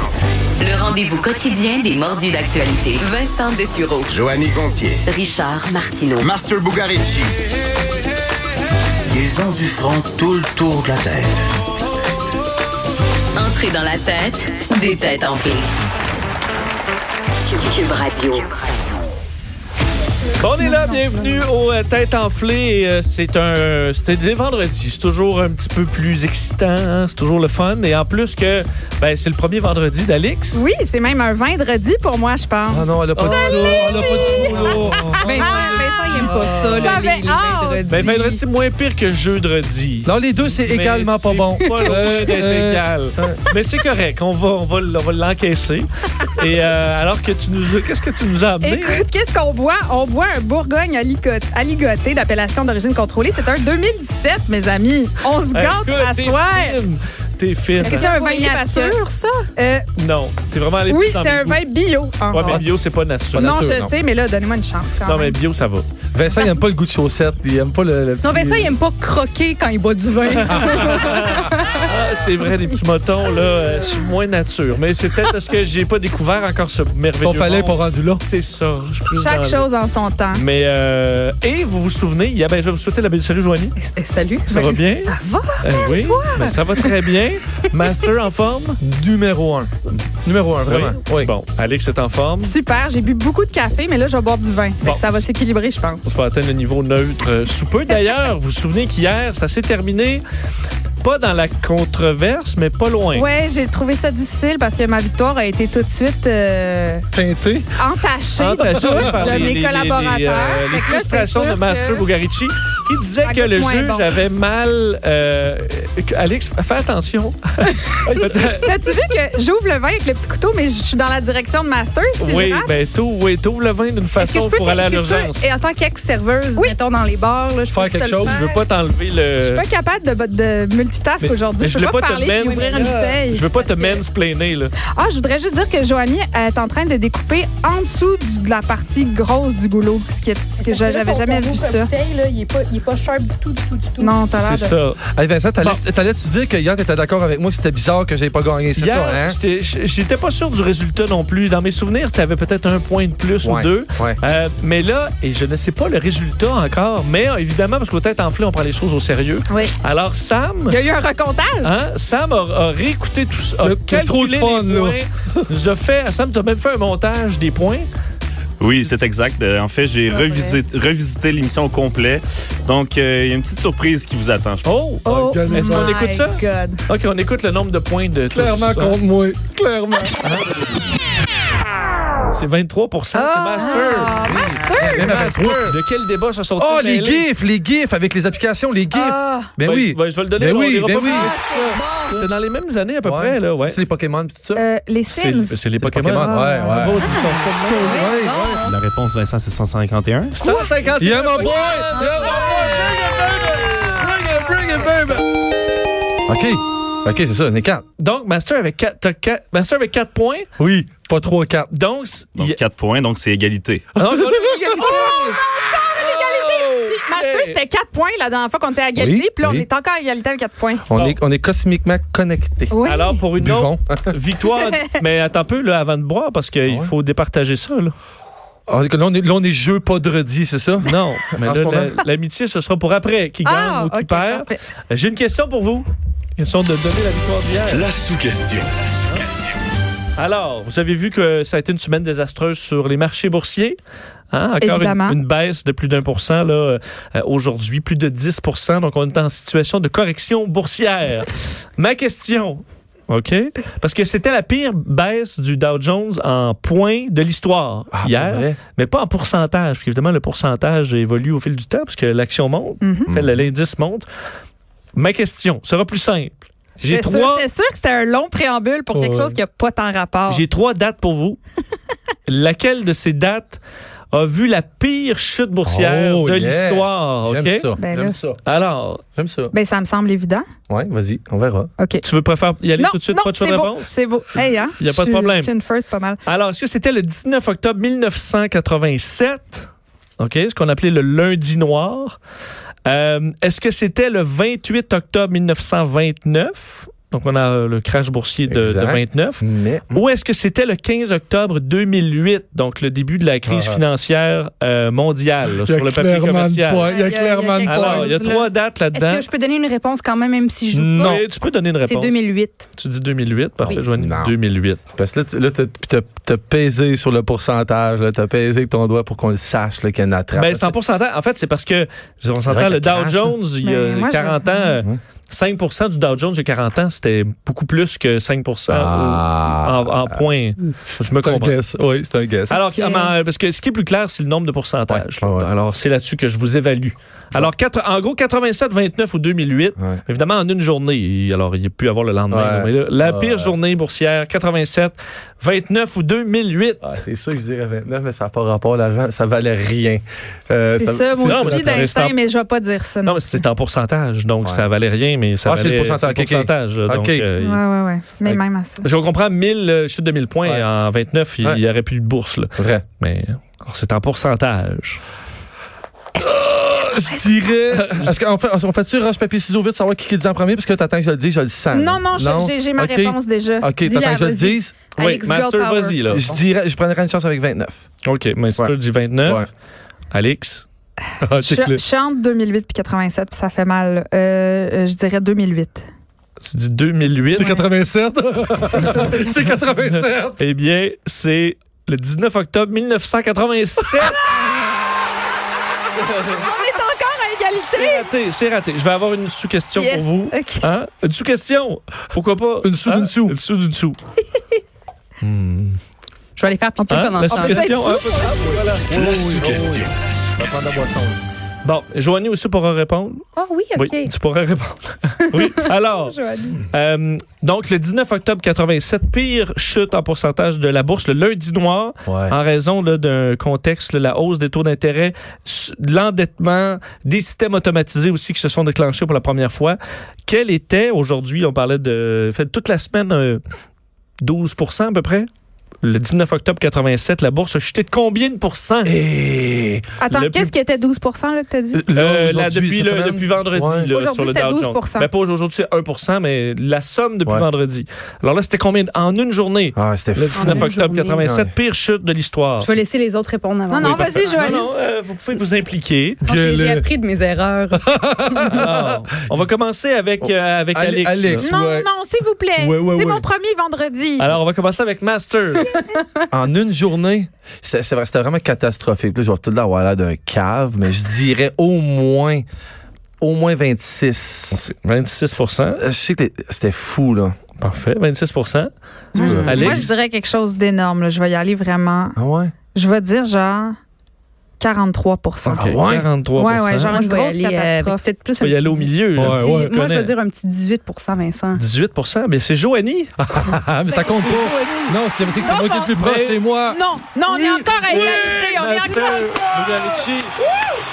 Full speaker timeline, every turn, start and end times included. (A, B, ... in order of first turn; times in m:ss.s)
0:00.6-0:04.2 A
0:04.1-0:05.0 B
0:05.0-0:06.3 A
0:06.2-0:07.4 B
0:09.1-0:11.4 B
0:13.4-0:15.7 A
0:17.5-0:18.5 A
0:20.4-0:30.6 C
0:20.6-0:21.3 D
0:30.5-0:38.1 D
0:32.7-0:35.2 E
0:35.2-0:38.4 F
0:36.2-0:37.0 C
0:37.9-0:49.0 C
0:40.0-0:43.4 E
0:41.8-0:42.1 F
0:48.6-0:56.8 D
0:55.5-0:58.1 C
0:57.8-0:59.0 D
0:57.8-0:59.5 F
0:59.6-0:59.8 D
1:00.0-1:01.6 C
1:00.9-1:02.6 D
1:02.3-1:03.7 C
1:03.3-1:05.4 D
1:03.3-1:03.9 E
1:05.0-1:05.8 C
1:06.1-1:08.7 E
1:08.2-1:11.8 F
1:10.3-1:19.7 C
1:10.6-1:10.9 E
1:17.2-1:18.2 E
1:19.1-1:20.4 D
1:20.3-1:23.7 C
1:23.8-1:26.9 F
1:24.5-1:28.8 C
1:28.8-1:31.3 E
1:30.6-1:32.6 C
1:32.4-1:36.0 D
1:34.8-1:35.3 C
1:36.0-1:40.2 C
1:41.0-1:43.3 C
1:43.1-1:47.0 D
1:47.1-1:47.7 E
1:47.8-1:52.0 D
1:48.4-1:58.7 C
1:48.7-1:49.6 E
1:53.2-1:54.2 D
1:58.1-1:58.4 E
1:58.6-2:02.7 D
2:02.2-2:05.4 C
2:04.2-2:08.3 F
2:07.7-2:08.4 E
2:08.2-2:09.6 C
2:08.3-2:08.6 D
2:09.4-2:13.4 D
2:11.2-2:14.7 C
2:12.4-2:14.0 F
2:14.9-2:21.9 D
2:20.6-2:24.2 F
2:24.0-2:24.7 D
2:24.3-2:25.0 C
2:25.1-2:29.4 E
2:28.8-2:40.8 C
2:33.4-2:34.2 E
2:40.7-2:41.7 D
2:41.6-2:47.8 C
2:43.6-2:45.4 E
2:48.6-2:54.7 G
2:50.1-2:50.6 D
2:54.6-2:59.0 C
2:55.0-2:56.8 D
2:55.0-2:56.0 E
2:58.3-3:00.6 E
3:02.3-3:07.2 C
3:03.1-3:05.1 D
3:04.1-3:05.8 E
3:06.6-3:11.4 E
3:08.9-3:09.5 D
3:09.6-3:13.8 C
3:11.0-3:12.2 D
3:13.0-3:14.6 E
3:14.5-3:17.7 D
3:15.1-3:18.1 C
3:15.8-3:17.2 E
3:17.8-3:18.7 E
3:17.8-3:18.7 F
3:18.7-3:20.3 G
3:20.3-3:23.8 C
3:20.4-3:20.8 D
3:21.0-3:25.2 E
3:21.4-3:23.8 D
3:24.8-3:25.1 C
3:26.2-3:27.8 E
3:28.0-3:30.5 C
3:30.6-3:31.7 E
3:31.7-3:32.6 C
3:32.4-3:34.0 G
3:34.0-3:35.4 C
3:34.1-3:34.5 E
3:34.7-3:40.9 D
3:36.0-3:37.6 C
3:38.9-3:39.7 E
3:40.9-3:42.8 E
3:42.7-3:43.2 D
3:42.8-3:47.9 C
3:43.4-3:44.1 E
3:46.6-3:46.9 E
3:48.7-3:51.9 E
3:50.8-3:57.9 C
3:53.4-3:54.6 D
3:57.7-3:58.8 B
4:00.2-4:03.8 C
4:04.3-4:24.0 C
4:04.6-4:05.2 D
4:17.9-4:18.6 E
4:22.8-4:23.1 D
4:23.1-4:23.4 E
4:24.9-4:27.5 C
4:26.8-4:30.4 D
4:28.9-4:29.4 E
4:30.3-4:31.4 C
4:32.3-4:33.6 C
4:34.1-4:37.7 C
4:35.6-4:38.4 E
4:37.8-4:38.2 D
4:38.4-4:39.0 C
4:39.2-4:39.5 E
4:39.5-4:40.4 D
4:40.7-4:41.7 E
4:41.8-4:42.0 D
4:42.0-4:45.5 C
4:42.8-4:46.2 D
4:46.2-4:49.7 C
4:50.2-4:52.2 C
4:52.8-5:06.9 C
4:58.5-5:00.0 E
5:03.4-5:03.8 E
5:05.6-5:08.2 E
5:06.8-5:08.5 D
5:07.6-5:09.3 C
5:08.9-5:11.2 F
5:10.8-5:12.2 C
5:10.9-5:11.2 E
5:11.8-5:12.7 F
5:12.8-5:14.8 C
5:13.6-5:14.4 E
5:14.9-5:20.7 E
5:20.3-5:31.6 C
5:22.5-5:23.4 E
5:23.6-5:24.8 D
5:28.7-5:30.2 E
5:31.1-5:32.6 E
5:32.5-5:47.0 C
5:32.7-5:33.1 D
5:34.9-5:35.5 E
5:42.3-5:43.5 E
5:46.8-5:51.8 E
5:50.7-5:53.2 D
5:51.2-5:52.1 C
5:53.0-5:57.6 C
5:55.4-5:57.2 E
5:57.4-5:58.8 D
5:58.2-6:05.0 C
6:02.6-6:02.8 E
6:06.2-6:14.7 E
6:07.7-6:08.1 C
6:11.7-6:13.7 D
6:13.8-6:16.3 F
6:15.0-6:16.2 C
6:16.1-6:17.8 E
6:18.0-6:19.5 C
6:19.2-6:19.5 E
6:20.1-6:20.6 C
6:21.2-6:21.8 E
6:21.4-6:25.9 D
6:26.4-6:27.6 C
6:27.3-6:30.4 E
6:28.7-6:29.4 D
6:29.8-6:34.3 C
6:36.0-6:36.4 C
6:36.3-6:38.1 D
6:37.6-6:44.0 C
6:39.8-6:40.7 D
6:42.6-6:43.4 E
6:45.2-6:45.8 C
6:46.4-6:47.8 F
6:46.8-6:48.6 D
6:46.9-6:49.0 C
6:48.4-6:51.2 E
6:48.9-6:49.9 B
6:51.6-6:56.2 C
6:53.4-6:54.1 F
6:55.9-6:56.6 D
6:56.7-7:13.4 C
7:02.1-7:02.3 E
7:14.2-7:15.3 C
7:15.8-7:18.9 C
7:18.8-7:19.9 E
7:20.0-7:21.8 D
7:20.1-7:20.5 C
7:21.7-7:23.9 E
7:21.9-7:32.7 C
7:23.9-7:25.1 D
7:29.7-7:30.7 E
7:30.4-7:31.2 F
7:31.2-7:31.5 E
7:32.6-7:34.5 F
7:33.7-7:34.7 D
7:33.8-7:36.2 C
7:36.2-7:36.9 E
7:36.2-7:38.4 F
7:37.7-7:39.4 E
7:38.5-7:41.5 C
7:40.2-7:41.9 E
7:41.4-7:44.3 D
7:42.6-7:43.2 E
7:44.2-7:45.8 C
7:46.3-7:52.4 E
7:53.2-7:54.7 E
7:54.5-7:55.8 C
7:55.7-7:57.4 E
7:57.6-7:59.9 C
7:59.1-8:02.2 D
7:59.2-7:59.9 E
8:02.2-8:02.5 E
8:02.7-8:03.8 D
8:04.6-8:05.7 D
8:05.4-8:07.0 C
8:05.5-8:06.1 E
8:06.4-8:08.0 D
8:06.9-8:11.6 F
8:08.4-8:10.1 C
8:09.2-8:09.7 E
8:11.6-8:13.2 C
8:13.2-8:16.8 E
8:14.0-8:14.9 C
8:14.0-8:14.5 D
8:15.4-8:15.9 D
8:16.0-8:16.4 C
8:16.7-8:19.7 D
8:17.3-8:20.4 C
8:17.9-8:18.2 E